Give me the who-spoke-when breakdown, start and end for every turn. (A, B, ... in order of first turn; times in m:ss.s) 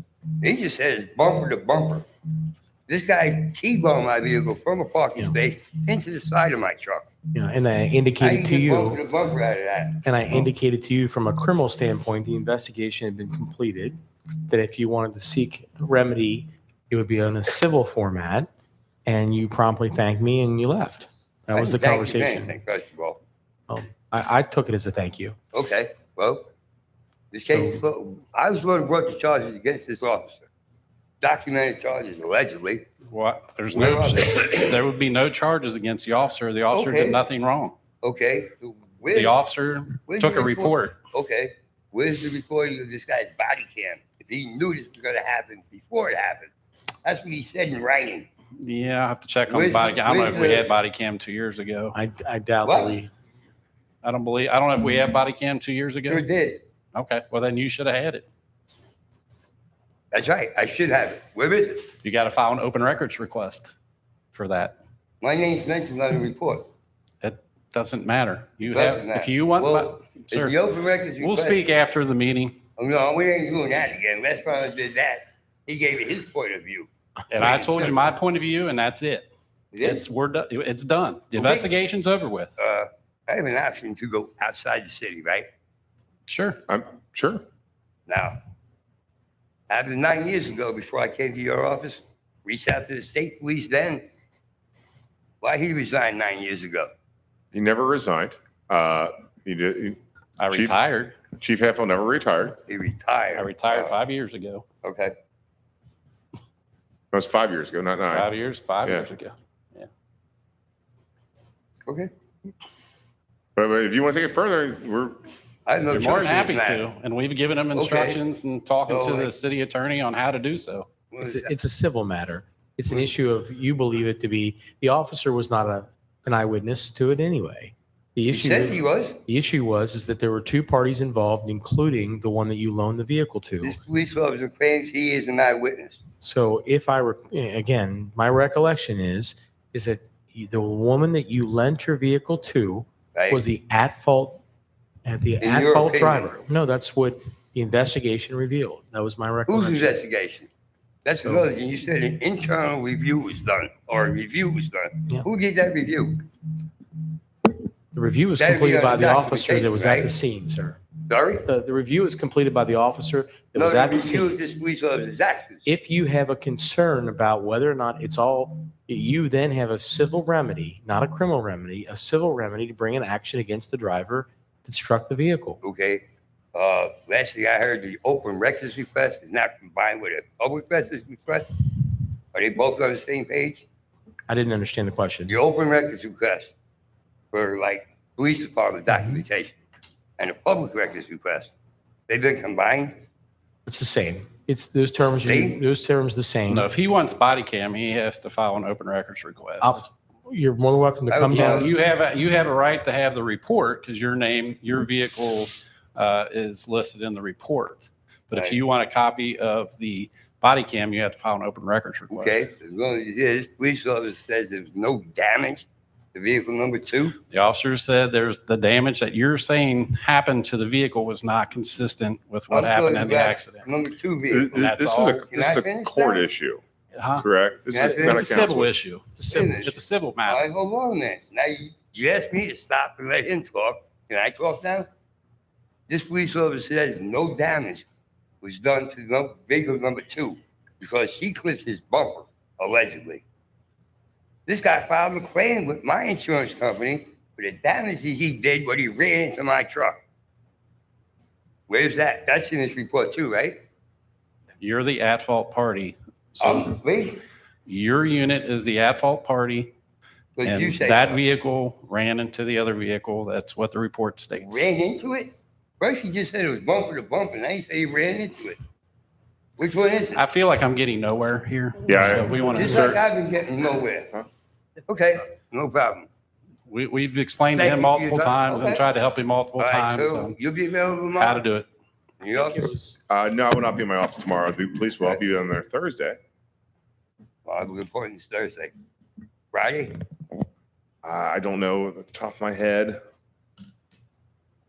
0:00.4-0:02.1 A
0:02.9-0:07.1 A
0:07.3-0:09.0 B
0:08.2-0:10.0 A
0:10.0-0:14.0 B
0:14.5-0:18.5 B
0:19.0-0:22.6 B
0:21.5-0:23.2 A
0:23.7-0:25.4 B
0:25.5-0:26.5 A
0:27.3-0:30.4 A
0:27.5-0:27.8 B
0:31.2-0:32.8 A
0:33.1-0:37.8 C
0:33.7-0:34.8 A
0:36.7-0:37.2 A
0:38.0-0:39.4 A
0:39.1-0:41.0 C
0:40.1-0:46.5 A
0:47.0-0:48.3 A
0:48.6-0:52.0 C
0:49.5-0:50.7 A
0:51.9-0:53.1 B
0:52.6-0:53.0 A
0:54.0-0:56.2 C
0:56.1-0:56.6 A
0:56.9-0:58.3 C
1:00.1-1:01.9 A
1:02.0-1:03.7 C
1:04.3-1:04.8 C
1:05.2-1:06.6 A
1:07.2-1:10.6 C
1:08.7-1:11.6 A
1:11.2-1:12.6 C
1:12.8-1:16.9 A
1:17.3-1:19.3 C
1:17.4-1:17.9 A
1:19.7-1:20.0 A
1:19.8-1:22.6 C
1:21.3-1:21.7 A
1:22.6-1:25.5 A
1:26.3-1:26.6 C
1:26.7-1:27.4 D
1:28.1-1:28.4 A
1:29.7-1:34.0 A
1:35.4-1:36.9 A
1:37.5-1:40.8 D
1:40.4-1:41.2 C
1:41.4-1:42.6 D
1:42.7-1:43.9 A
1:43.3-1:44.6 C
1:44.8-1:45.1 A
1:47.1-1:48.3 D
1:48.1-1:49.9 C
1:51.8-1:52.1 A
1:53.6-1:55.2 D
1:55.6-1:56.9 A
1:55.9-2:00.9 C
1:57.7-1:58.2 A
1:58.9-1:59.3 A
2:01.1-2:01.5 A
2:01.2-2:13.8 B
2:08.3-2:09.2 A
2:13.6-2:16.0 A
2:16.2-2:24.4 B
2:23.1-2:23.4 A
2:25.0-2:30.0 B
2:25.4-2:26.4 A
2:29.5-2:30.5 A
2:31.0-2:36.2 A
2:37.9-2:40.8 B
2:38.4-2:40.1 A
2:41.1-2:41.5 A
2:41.4-2:44.4 B
2:43.5-2:45.6 A
2:45.6-2:55.6 B
2:55.6-3:01.5 A
3:02.3-3:03.7 A
3:04.3-3:05.3 B
3:05.3-3:06.5 A
3:07.3-3:09.6 A
3:10.2-3:11.5 A
3:12.1-3:13.0 A
3:13.6-3:16.7 B
3:15.2-3:15.6 A
3:16.5-3:19.8 C
3:19.6-3:21.7 B
3:21.1-3:21.7 A
3:21.3-3:32.4 C
3:32.1-3:37.2 A
3:37.3-3:43.6 C
3:42.5-3:44.6 A
3:44.3-3:46.6 D
3:44.5-3:45.3 C
3:45.3-3:46.2 A
3:46.9-3:47.3 C
3:47.2-3:48.7 D
3:47.7-3:48.5 A
3:47.8-3:50.4 C
3:49.1-3:49.7 B
3:49.3-3:54.9 A
3:55.9-3:57.8 A
3:58.4-4:03.2 A
4:04.5-4:10.0 A
4:11.7-4:13.6 A
4:14.6-4:16.8 C
4:16.4-4:17.2 A
4:17.6-4:19.7 C
4:20.4-4:21.2 A
4:20.4-4:24.6 C
4:24.4-4:28.6 A
4:29.6-4:30.2 A
4:30.1-4:33.0 C
4:31.9-4:32.4 D
4:32.4-4:34.2 A
4:34.9-4:36.1 A
4:36.7-4:40.3 C
4:37.5-4:38.8 A
4:39.6-4:41.4 A
4:41.2-4:41.7 C
4:42.2-4:42.7 A
4:42.3-4:43.0 B
4:43.1-4:46.2 D
4:47.4-4:48.7 A
4:49.5-4:50.0 A
4:51.0-4:53.0 D